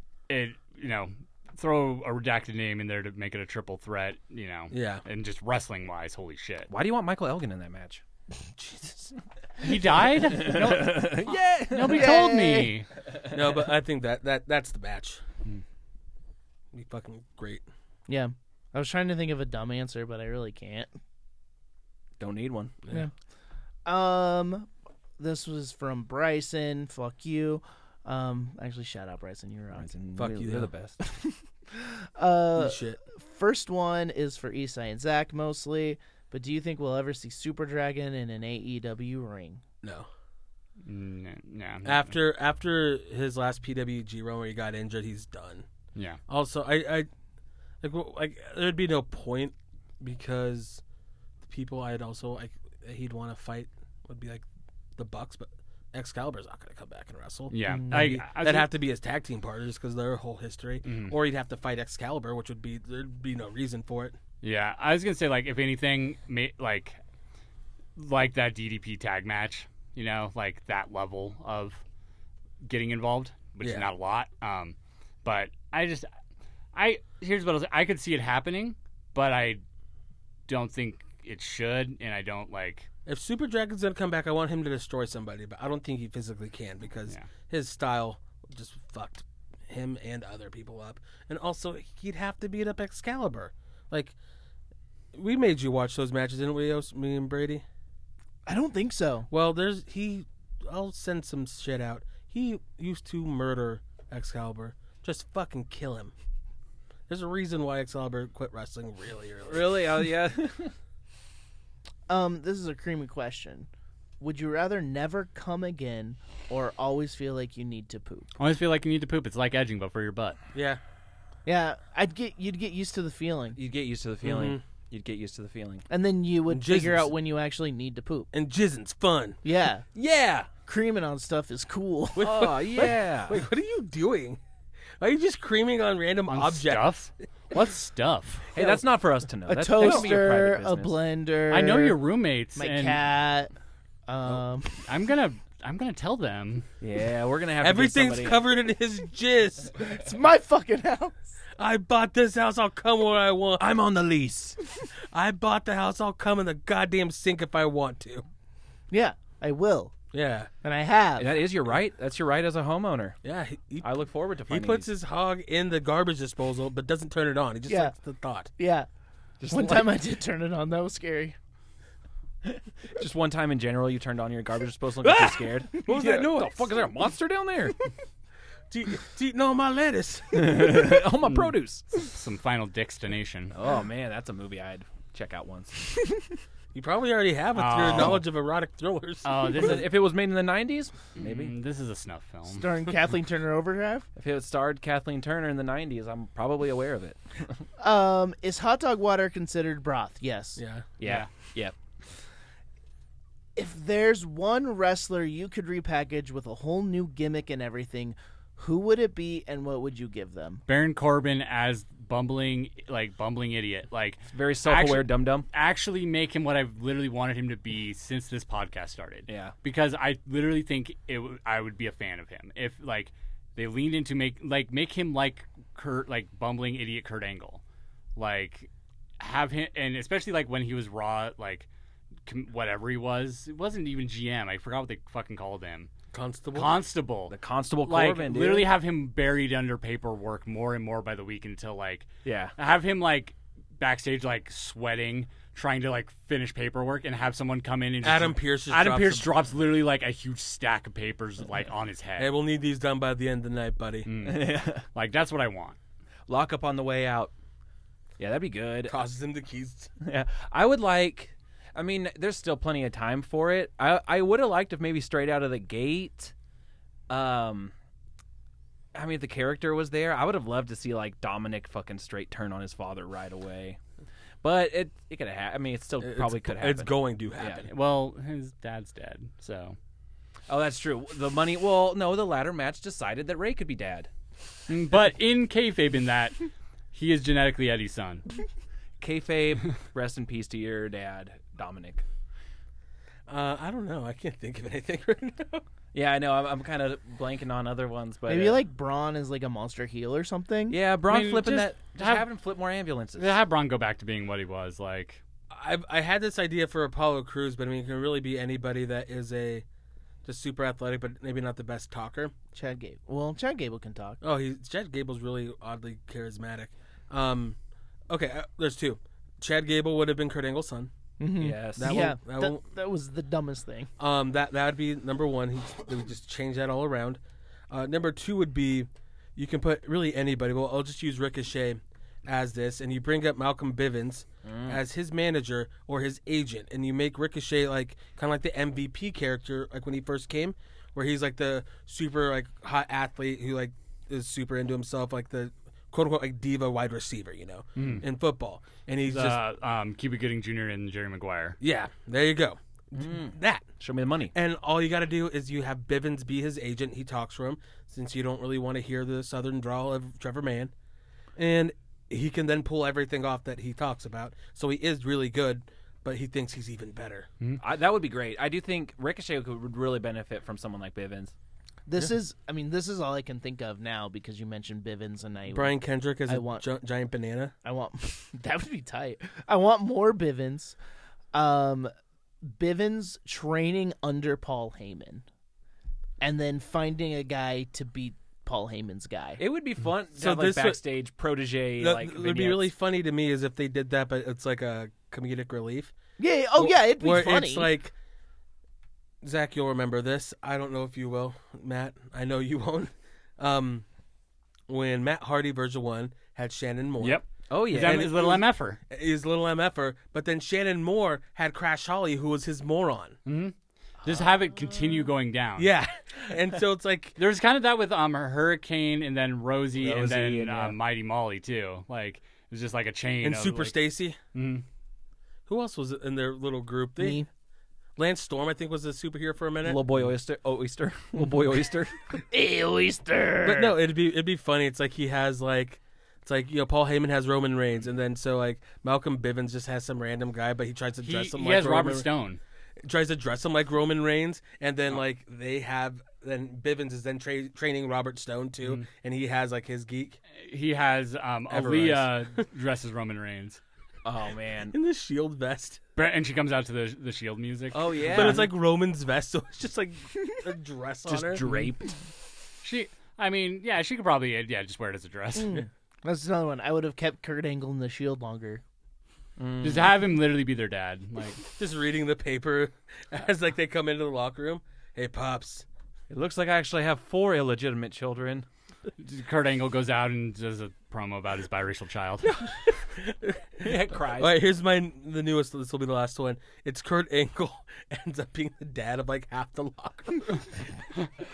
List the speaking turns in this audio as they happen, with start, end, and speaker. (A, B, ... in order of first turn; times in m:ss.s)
0:00.3-0:06.7 A
0:04.7-0:05.0 B
0:06.7-0:08.0 C
0:08.6-0:09.1 B
0:09.6-0:12.9 A
0:09.7-0:12.3 C
0:11.8-0:12.8 D
0:13.3-0:15.2 B
0:16.7-0:17.7 B
0:18.1-0:20.9 D
0:22.2-0:22.8 C
0:23.9-0:29.9 D
0:29.7-0:31.0 C
0:30.2-0:30.7 B
0:31.0-0:39.6 D
0:32.6-0:33.0 B
0:39.8-0:40.1 B
0:40.8-0:42.1 A
0:41.8-0:45.7 B
0:46.0-0:46.2 A
0:46.3-0:47.1 B
0:47.8-0:50.8 B
0:51.4-0:54.4 B
0:55.0-1:04.2 B
0:57.5-0:58.7 A
0:57.7-0:58.0 D
1:00.8-1:01.2 A
1:04.4-1:07.0 A
1:08.0-1:11.8 A
1:12.6-1:16.1 A
1:13.6-1:13.9 B
1:16.7-1:19.6 A
1:20.5-1:22.9 A
1:23.1-1:34.2 B
1:35.1-1:37.6 B
1:38.5-1:39.3 D
1:39.3-1:46.1 B
1:47.1-1:49.8 B
1:49.5-1:50.8 C
1:52.1-1:53.7 D
1:54.2-1:58.3 D
1:58.4-2:00.4 A
2:00.5-2:00.8 B
2:01.5-2:03.6 D
2:03.6-2:05.9 C
2:04.2-2:04.6 B
2:05.9-2:08.3 D
2:06.5-2:07.1 B
2:08.3-2:09.4 B
2:09.4-2:09.9 D
2:10.0-2:10.5 C
2:10.7-2:12.4 D
2:12.2-2:13.4 C
2:12.2-2:14.4 B
2:15.0-2:16.9 B
2:16.3-2:18.5 A
2:18.6-2:21.0 C
2:19.5-2:22.0 D
2:19.8-2:20.1 A
2:21.5-2:23.0 A
2:22.6-2:23.5 D
2:24.1-2:24.9 D
2:24.9-2:26.7 A
2:26.8-2:28.4 C
2:27.6-2:29.8 B
2:29.8-2:31.2 D
2:31.6-2:33.6 B
2:33.6-2:34.6 C
2:35.1-2:38.2 B
2:38.9-2:39.9 D
2:40.1-2:40.5 B
2:40.6-2:41.3 D
2:41.2-2:43.2 C
2:43.2-2:43.9 B
2:43.8-2:44.9 C
2:44.5-2:48.5 B
2:47.7-2:47.9 D
2:48.6-2:48.9 D
2:49.4-2:50.0 C
2:49.5-2:51.4 D
2:52.4-2:57.8 C
2:55.0-2:56.8 B
2:58.7-3:00.9 B
3:00.3-3:01.9 C
3:01.2-3:03.5 A
3:03.5-3:05.9 C
3:06.7-3:09.5 B
3:07.6-3:08.2 A
3:09.2-3:09.9 A
3:09.6-3:11.5 C
3:11.2-3:12.7 A
3:12.5-3:14.1 D
3:14.2-3:17.6 C
3:17.8-3:20.6 D
3:20.6-3:20.9 B
3:21.0-3:21.7 C
3:21.0-3:21.3 A
3:23.6-3:30.6 D
3:30.7-3:47.6 A
3:34.3-3:35.5 C
3:39.3-3:39.5 C
3:48.2-3:51.7 A
3:52.3-3:55.9 A
3:56.1-3:56.8 B
3:56.5-4:12.3 A
3:57.3-3:58.7 C
4:02.2-4:02.6 C
4:08.0-4:09.3 B
4:12.2-4:14.1 B
4:14.1-4:15.8 A
4:14.2-4:14.8 C
4:16.3-4:17.3 C
4:18.2-4:19.0 C
4:18.9-4:19.9 B
4:20.0-4:26.3 C
4:27.1-4:27.7 C
4:28.9-4:33.8 C
4:34.4-4:37.7 C
4:36.0-4:37.7 B
4:37.7-4:39.8 A
4:40.5-4:44.1 C
4:44.7-4:48.3 A
4:49.0-4:52.0 C
4:53.3-4:55.6 B
4:55.9-4:58.6 C
4:58.3-5:00.8 D
5:00.7-5:03.4 C
5:01.1-5:02.3 A
5:03.2-5:05.2 A
5:05.5-5:09.6 B
5:10.2-5:12.3 B
5:12.5-5:14.2 D
5:14.2-5:17.6 B
5:18.1-5:20.9 B
5:21.2-5:23.9 D
5:21.4-5:22.0 C
5:21.8-5:22.6 B
5:24.0-5:49.4 B
5:34.4-5:34.8 C
5:47.8-5:48.0 A
5:49.1-5:51.6 A
5:51.6-5:53.7 B
5:52.9-5:54.3 C
5:54.3-6:00.7 B
6:01.4-6:07.3 B
6:07.6-6:11.3 C
6:11.9-6:16.6 D
6:15.5-6:17.5 B
6:17.6-6:20.8 D
6:21.3-6:21.9 D
6:22.4-6:25.2 D
6:26.2-6:29.4 D
6:29.4-6:32.7 C
6:30.2-6:30.8 B
6:31.8-6:35.9 B
6:36.2-6:37.7 D
6:36.6-6:37.9 B
6:39.2-6:43.8 B
6:44.7-6:47.2 B
6:47.0-6:48.8 A
6:47.5-6:48.1 C
6:47.7-6:53.2 B
6:53.3-6:55.7 A
6:55.6-6:57.2 B
6:57.2-7:03.8 A
6:59.8-7:00.8 C
7:03.2-7:04.2 B
7:04.3-7:04.6 A
7:05.5-7:07.2 B
7:07.0-7:07.3 D
7:08.0-7:09.8 B
7:09.6-7:12.0 C
7:12.2-7:13.8 D
7:13.4-7:22.1 B
7:21.0-7:22.4 A
7:22.8-7:30.2 B
7:30.4-7:33.6 A
7:31.5-7:32.2 B
7:34.0-7:34.8 C
7:34.7-7:35.8 B
7:36.0-7:38.4 A
7:37.7-7:38.5 C
7:38.1-7:41.4 B
7:41.1-7:41.9 C
7:42.6-7:45.5 A
7:45.4-7:48.6 D
7:49.4-7:49.9 C
7:49.6-7:51.4 A
7:51.6-7:55.7 B
7:56.1-7:58.5 C
7:59.0-8:02.5 A
8:02.5-8:10.6 B
8:03.6-8:04.4 C